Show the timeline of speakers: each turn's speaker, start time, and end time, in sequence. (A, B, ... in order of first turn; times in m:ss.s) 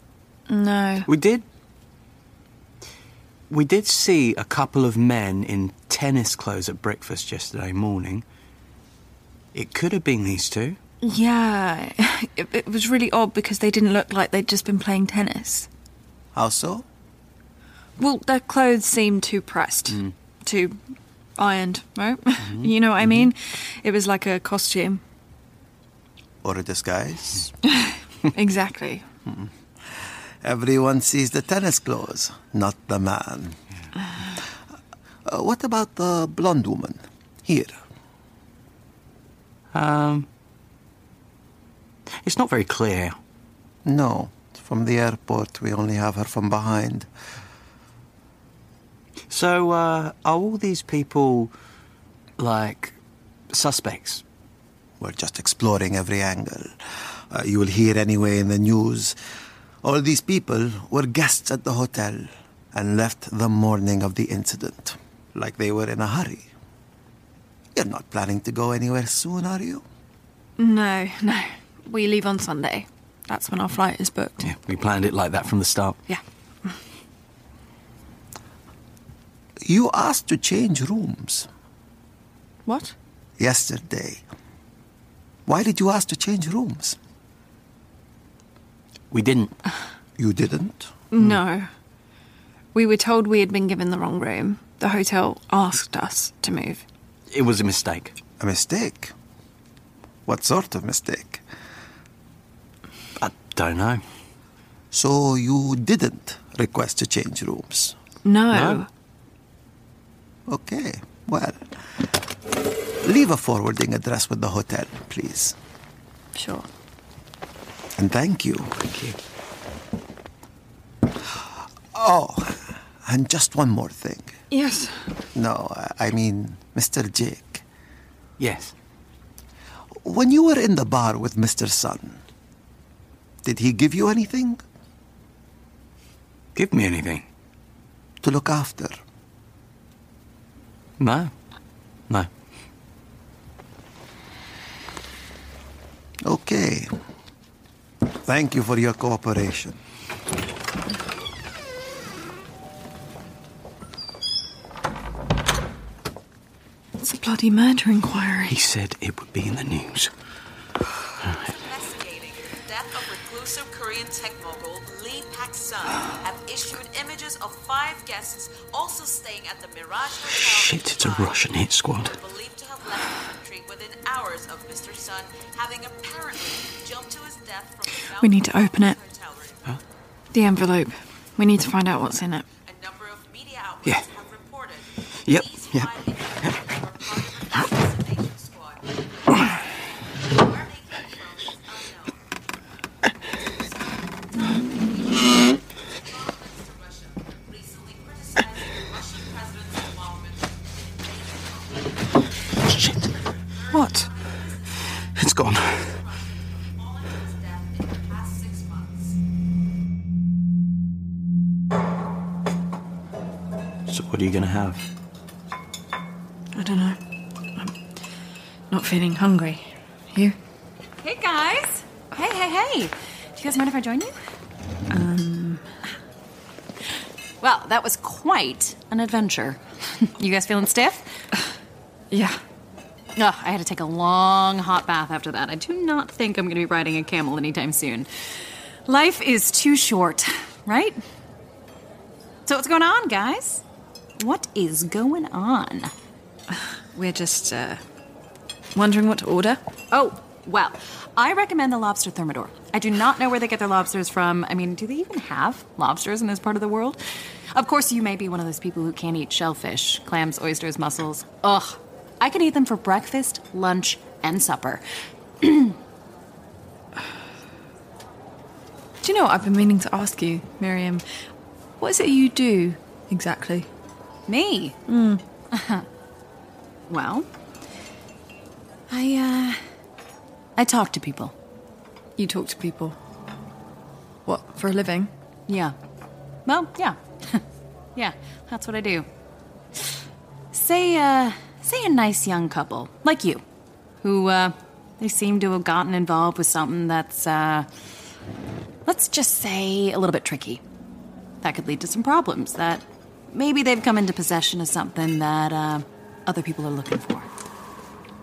0:00.5-0:01.1 A
0:01.1-0:01.4 B
0:03.5-0:08.2 B
0:09.5-0:10.8 B
0:11.0-0:15.7 A
0:16.3-0:16.8 C
0:18.0-0:20.8 A
0:21.4-0:25.0 A
0:22.4-0:23.2 B
0:26.4-0:27.5 C
0:27.7-0:29.0 A
0:29.3-0:33.6 C
0:35.2-0:37.8 C
0:39.7-0:40.3 B
0:42.2-0:43.2 B
0:43.8-0:47.1 C
0:49.3-0:51.5 B
0:52.4-0:53.0 B
0:53.5-0:54.2 B
0:55.0-0:59.2 C
0:59.8-1:06.5 C
1:07.7-1:09.8 C
1:10.6-1:14.5 A
1:14.4-1:16.0 B
1:19.6-1:21.5 C
1:22.6-1:22.9 A
1:23.4-1:24.2 C
1:25.4-1:27.0 C
1:29.1-1:29.6 B
1:30.2-1:30.9 C
1:31.1-1:31.7 A
1:32.7-1:36.8 A
1:37.3-1:38.1 B
1:38.4-1:39.1 C
1:40.2-1:41.4 C
1:43.2-1:44.0 B
1:44.9-1:48.0 C
1:48.2-1:48.9 A
1:48.5-1:48.8 B
1:50.5-1:51.6 C
1:53.0-1:55.6 C
1:56.3-1:56.7 A
1:58.0-1:58.7 C
1:58.8-1:59.2 B
2:01.9-2:04.3 C
2:04.5-2:05.1 A
2:05.3-2:07.6 C
2:08.4-2:08.7 B
2:10.0-2:12.2 C
2:13.4-2:14.6 C
2:16.5-2:17.2 B
2:18.2-2:19.0 C
2:21.0-2:21.3 B
2:26.2-2:26.9 C
2:28.2-2:29.8 C
2:37.0-2:38.6 A
2:38.5-2:40.1 B
2:41.3-2:51.4 D
2:50.3-2:52.1 B
2:52.0-2:59.7 D
2:58.2-2:59.0 A
3:00.3-3:02.4 A
3:02.6-3:09.5 D
3:05.2-3:05.9 B
3:10.2-3:12.2 D
3:15.0-3:15.3 D
3:15.9-3:22.3 D
3:22.6-3:23.1 B
3:23.5-3:25.1 D
3:23.7-3:24.1 B
3:25.1-3:25.9 B
3:25.8-3:29.2 D
3:33.9-3:34.8 B
3:36.5-3:37.0 A
3:38.7-3:40.4 A
3:41.0-3:44.2 E
3:44.9-3:45.7 A
3:47.4-3:51.1 E
3:52.1-3:52.4 A
3:53.2-3:58.1 E
3:58.8-4:01.0 E
4:02.5-4:03.6 E
4:04.2-4:05.9 E
4:06.9-4:07.8 A
4:08.7-4:09.6 A
4:09.9-4:17.0 E
4:17.5-4:24.8 E
4:25.4-4:25.8 E
4:29.0-4:31.0 A
4:31.8-4:33.7 A
4:34.3-4:34.8 E
4:34.9-4:35.2 A
4:35.5-4:35.8 E
4:36.9-4:37.3 E
4:38.9-4:39.6 E
4:40.6-4:41.3 E
4:42.2-4:43.0 A
4:44.2-4:45.1 A
4:45.5-4:45.7 E
4:46.4-4:47.4 E
4:48.0-4:49.1 E
4:50.5-4:53.4 E
4:54.0-4:57.7 E
4:58.9-5:00.6 E
5:01.4-5:07.3 E